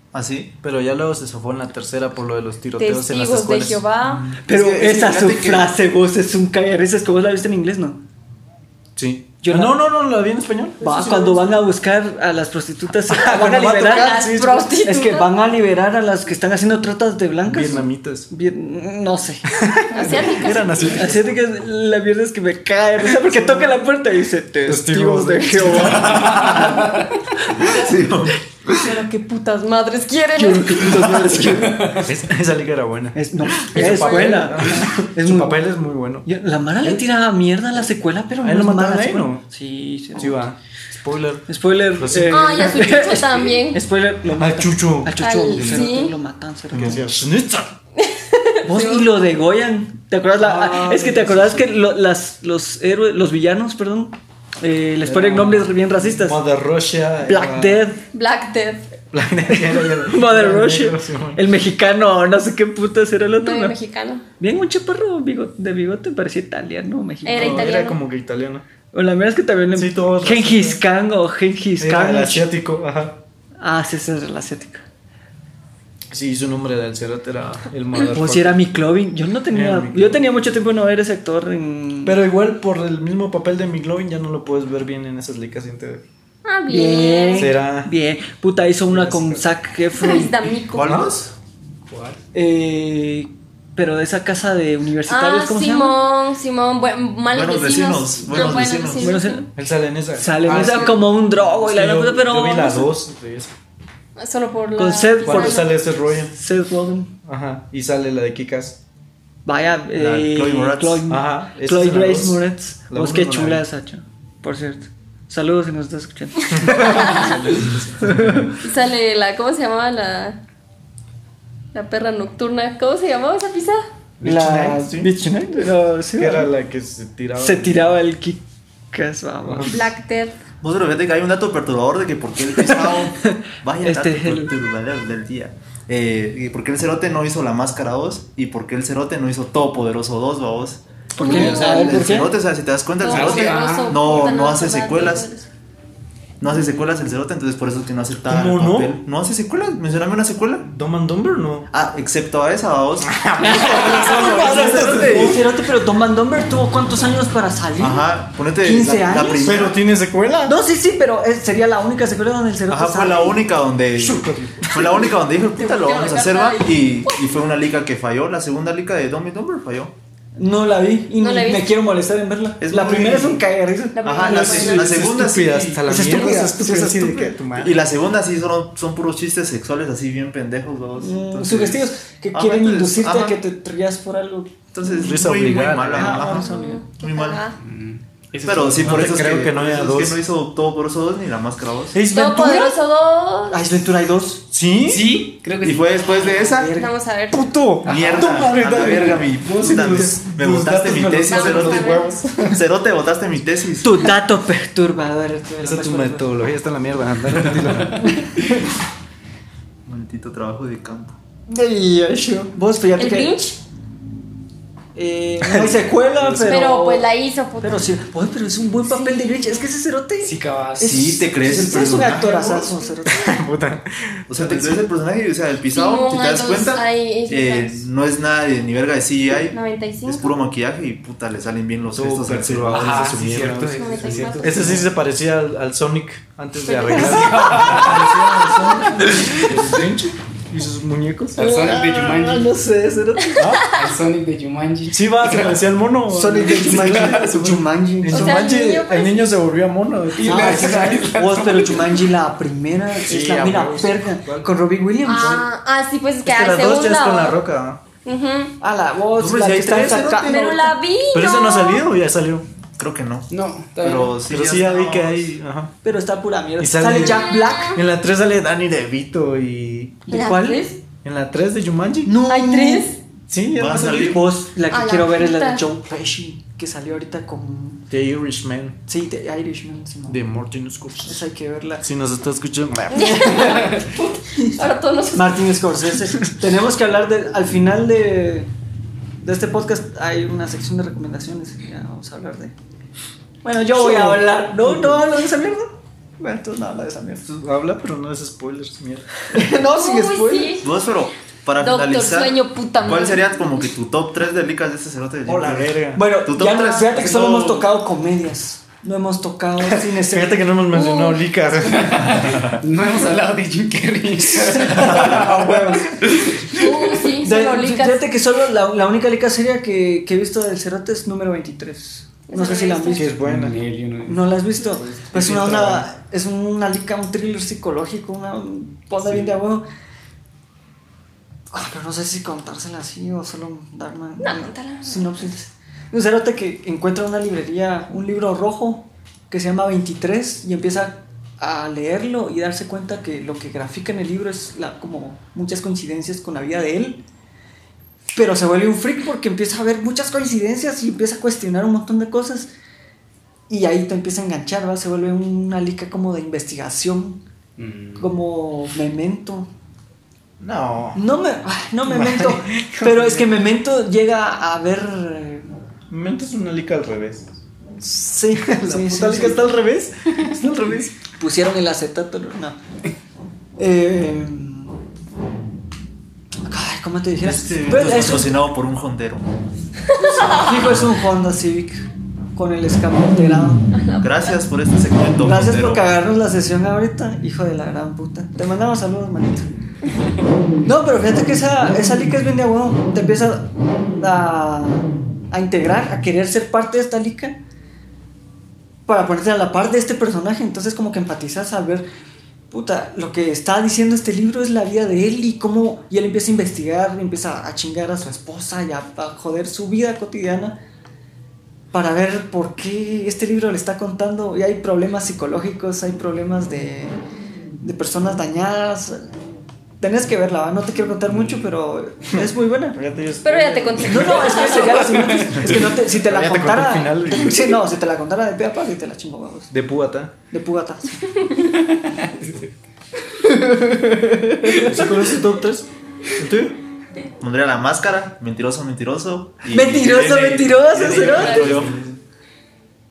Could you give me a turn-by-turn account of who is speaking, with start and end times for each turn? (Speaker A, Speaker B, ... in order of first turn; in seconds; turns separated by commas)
Speaker A: 0.1-0.5, Speaker B: 0.6-3.8, Speaker C: 2.8-4.3, Speaker D: 4.4-8.0, Speaker A: 4.4-5.7, Speaker B: 8.9-11.3, Speaker D: 9.4-9.8, Speaker D: 10.8-14.2, Speaker B: 13.1-14.7, Speaker C: 13.8-15.3, Speaker D: 14.8-19.5, Speaker B: 17.4-18.3, Speaker B: 19.6-21.4, Speaker C: 19.9-21.1, Speaker D: 20.9-26.9, Speaker B: 23.1-23.8, Speaker B: 24.7-26.8, Speaker A: 26.0-26.8, Speaker A: 27.5-29.0, Speaker C: 28.8-31.2, Speaker D: 30.3-32.0, Speaker E: 31.5-32.0, Speaker B: 32.0-36.3, Speaker D: 33.1-35.7, Speaker C: 33.8-34.4, Speaker D: 36.2-40.5, Speaker B: 38.4-39.4, Speaker B: 40.1-42.8, Speaker D: 41.5-47.1, Speaker C: 42.3-43.8, Speaker B: 44.4-45.8, Speaker C: 45.2-46.1, Speaker A: 46.7-47.1, Speaker B: 46.7-47.7, Speaker C: 48.0-49.1, Speaker D: 48.6-56.4, Speaker B: 50.4-51.7, Speaker B: 55.0-57.9, Speaker D: 57.2-58.0, Speaker C: 58.1-58.8, Speaker B: 59.1-61.4, Speaker D: 59.5-63.8, Speaker C: 63.4-64.2, Speaker D: 64.4-67.7, Speaker C: 67.2-68.0, Speaker B: 67.3-68.6, Speaker D: 68.9-72.5, Speaker B: 69.7-70.8, Speaker B: 71.8-73.2, Speaker D: 73.6-74.8, Speaker B: 76.1-78.6, Speaker D: 78.1-82.2, Speaker B: 79.5-80.3, Speaker B: 82.0-86.0, Speaker C: 86.4-87.5, Speaker D: 86.7-90.3, Speaker B: 87.3-87.9, Speaker B: 88.9-89.4, Speaker C: 89.9-91.1, Speaker A: 90.7-91.3, Speaker E: 91.9-92.2, Speaker D: 92.3-96.0, Speaker C: 95.1-99.4, Speaker A: 97.3-99.2, Speaker D: 99.0-99.5, Speaker B: 99.5-103.5, Speaker D: 100.2-102.9, Speaker C: 100.5-100.9, Speaker C: 104.2-105.7, Speaker D: 104.8-107.1, Speaker B: 105.2-106.3, Speaker B: 107.2-108.8, Speaker D: 109.4-118.5, Speaker A: 109.9-111.0, Speaker B: 111.1-113.6, Speaker B: 116.5-118.6, Speaker C: 116.7-117.5, Speaker C: 118.6-120.4, Speaker C: 121.7-123.8, Speaker B: 124.2-125.1, Speaker D: 124.2-126.5, Speaker B: 126.2-127.9, Speaker D: 127.4-129.9, Speaker B: 129.4-129.7, Speaker C: 129.7-130.3, Speaker A: 130.6-145.3, Speaker D: 132.5-134.5, Speaker D: 141.2-142.3, Speaker C: 141.2-142.0, Speaker C: 143.0-145.5, Speaker E: 143.1-144.1, Speaker A: 146.4-150.7, Speaker B: 148.3-149.0, Speaker B: 150.7-151.7, Speaker A: 151.7-155.4, Speaker B: 153.0-155.4, Speaker D: 153.4-159.5, Speaker A: 157.8-159.8, Speaker B: 159.3-160.5, Speaker D: 160.4-163.4, Speaker A: 162.7-169.9, Speaker B: 164.0-164.9, Speaker C: 165.6-167.2, Speaker D: 170.4-174.8, Speaker C: 171.2-171.7, Speaker A: 172.6-173.4, Speaker C: 173.9-175.1, Speaker A: 174.0-175.9, Speaker B: 174.3-177.8, Speaker D: 175.8-177.3, Speaker A: 177.5-183.4, Speaker D: 181.0-184.5, Speaker A: 184.7-187.4, Speaker B: 185.0-186.2, Speaker D: 185.9-186.8, Speaker C: 186.3-187.6, Speaker E: 187.6-189.2, Speaker A: 188.4-192.0, Speaker B: 188.8-190.2, Speaker B: 191.9-192.8, Speaker C: 192.1-193.7, Speaker D: 193.5-194.4, Speaker B: 194.5-195.2, Speaker E: 194.8-196.2, Speaker A: 195.6-196.7, Speaker D: 196.2-196.9, Speaker C: 196.7-197.5, Speaker B: 197.3-202.6, Speaker A: 197.8-204.0, Speaker E: 197.9-198.3, Speaker C: 201.2-202.2, Speaker D: 203.8-206.3, Speaker B: 205.6-208.2, Speaker D: 208.0-208.7, Speaker A: 209.8-211.2, Speaker D: 211.5-213.4, Speaker C: 213.0-213.6, Speaker D: 214.9-217.1, Speaker B: 215.4-216.6, Speaker C: 216.4-217.9, Speaker D: 217.6-223.4, Speaker C: 218.8-219.7, Speaker E: 220.2-221.6, Speaker A: 220.8-222.6, Speaker B: 223.1-224.8, Speaker A: 224.3-233.2, Speaker C: 225.7-227.8, Speaker C: 229.5-230.3, Speaker B: 231.9-241.4, Speaker E: 232.7-234.9, Speaker C: 233.7-234.8, Speaker C: 236.7-237.6, Speaker E: 236.9-238.0, Speaker D: 237.4-238.0, Speaker E: 239.2-239.9, Speaker E: 241.4-242.5, Speaker D: 241.4-243.5, Speaker B: 243.4-243.7, Speaker E: 243.6-245.6, Speaker B: 244.9-251.0, Speaker D: 246.1-248.5, Speaker E: 246.8-247.2, Speaker C: 248.1-249.2, Speaker E: 250.1-252.0, Speaker D: 250.2-255.5, Speaker B: 253.0-254.5, Speaker C: 255.0-257.4, Speaker B: 256.2-257.8, Speaker C: 258.0-258.6, Speaker D: 258.6-260.7, Speaker A: 259.1-260.6, Speaker C: 260.2-261.9, Speaker B: 261.1-262.4, Speaker A: 262.8-265.3, Speaker E: 263.3-264.1, Speaker B: 264.3-265.7, Speaker D: 265.8-267.8, Speaker B: 266.6-270.0, Speaker C: 267.0-267.8, Speaker D: 270.1-270.7, Speaker C: 270.1-270.8, Speaker B: 271.0-272.1, Speaker D: 272.1-272.9, Speaker C: 272.3-273.0, Speaker B: 273.3-274.2, Speaker A: 273.5-274.3, Speaker D: 273.6-277.9, Speaker C: 274.7-275.6, Speaker B: 277.9-278.8, Speaker D: 278.9-280.2, Speaker B: 280.1-281.2, Speaker D: 281.0-281.9, Speaker B: 281.8-283.4, Speaker C: 282.9-285.4, Speaker D: 282.9-284.6, Speaker D: 285.1-288.5, Speaker D: 289.2-292.5, Speaker D: 293.4-297.2, Speaker B: 293.8-295.0, Speaker B: 297.2-299.1, Speaker D: 299.3-300.6, Speaker C: 299.7-300.7, Speaker A: 300.6-307.7, Speaker C: 301.6-303.5, Speaker B: 305.2-306.0, Speaker D: 305.9-310.5, Speaker B: 309.9-312.6, Speaker C: 310.7-311.2, Speaker E: 311.7-316.7, Speaker D: 314.3-323.1, Speaker C: 316.5-318.1, Speaker C: 322.3-323.1, Speaker B: 322.9-323.6, Speaker E: 323.2-324.3, Speaker D: 324.0-329.7, Speaker B: 324.9-325.9, Speaker D: 331.5-347.0, Speaker C: 334.2-335.0, Speaker D: 348.1-352.5, Speaker D: 353.5-357.2, Speaker E: 357.6-358.1, Speaker D: 358.0-359.5, Speaker B: 360.4-361.0, Speaker D: 360.9-365.5, Speaker B: 361.9-363.3, Speaker B: 365.9-367.3, Speaker D: 367.8-369.5, Speaker B: 368.4-370.9, Speaker D: 371.1-372.6, Speaker D: 373.6-374.8, Speaker D: 376.5-378.4, Speaker A: 377.2-379.3, Speaker C: 380.0-380.5, Speaker D: 380.0-383.7, Speaker C: 383.7-384.4, Speaker A: 384.0-385.9, Speaker D: 385.1-389.5, Speaker D: 390.6-397.4, Speaker D: 398.9-401.9, Speaker D: 402.5-410.6, Speaker D: 411.7-416.9, Speaker D: 417.6-419.1, Speaker D: 419.8-422.8, Speaker B: 422.1-424.5, Speaker C: 423.2-425.0, Speaker D: 423.8-429.5, Speaker B: 425.3-427.6, Speaker B: 429.5-430.1, Speaker D: 430.3-431.1, Speaker E: 431.8-432.4, Speaker D: 433.2-435.2, Speaker B: 434.6-436.6, Speaker A: 437.2-441.9, Speaker D: 439.5-441.6, Speaker B: 440.7-441.8, Speaker C: 441.1-441.5